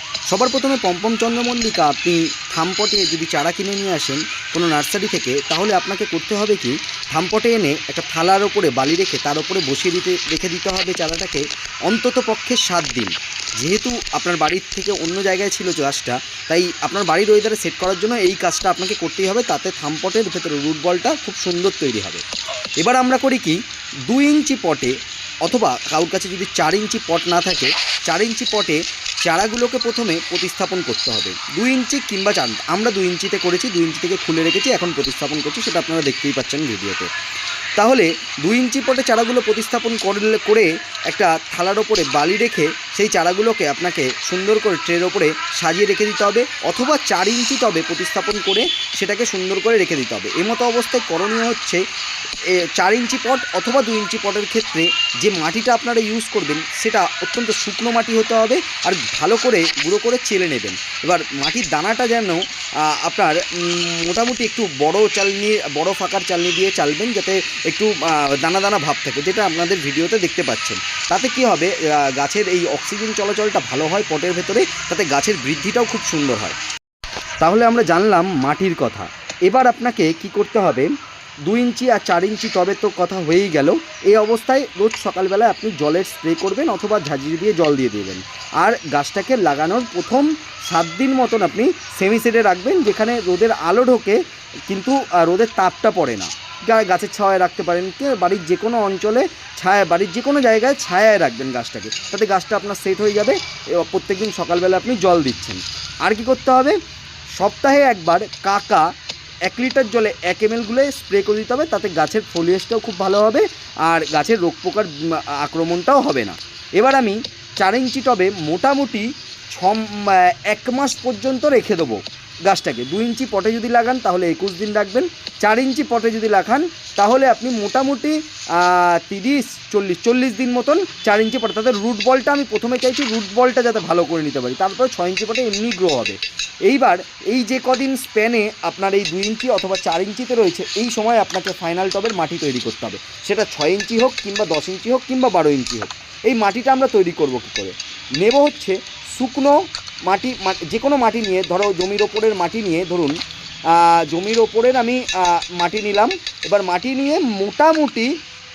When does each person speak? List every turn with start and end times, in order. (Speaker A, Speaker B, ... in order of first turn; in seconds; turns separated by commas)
Speaker A: 0.3-22.2, Speaker A: 22.8-37.1, Speaker A: 37.8-51.8, Speaker A: 52.5-76.5, Speaker A: 77.4-80.9, Speaker A: 81.5-106.8, Speaker A: 107.3-108.9, Speaker A: 109.4-153.2, Speaker A: 153.7-158.1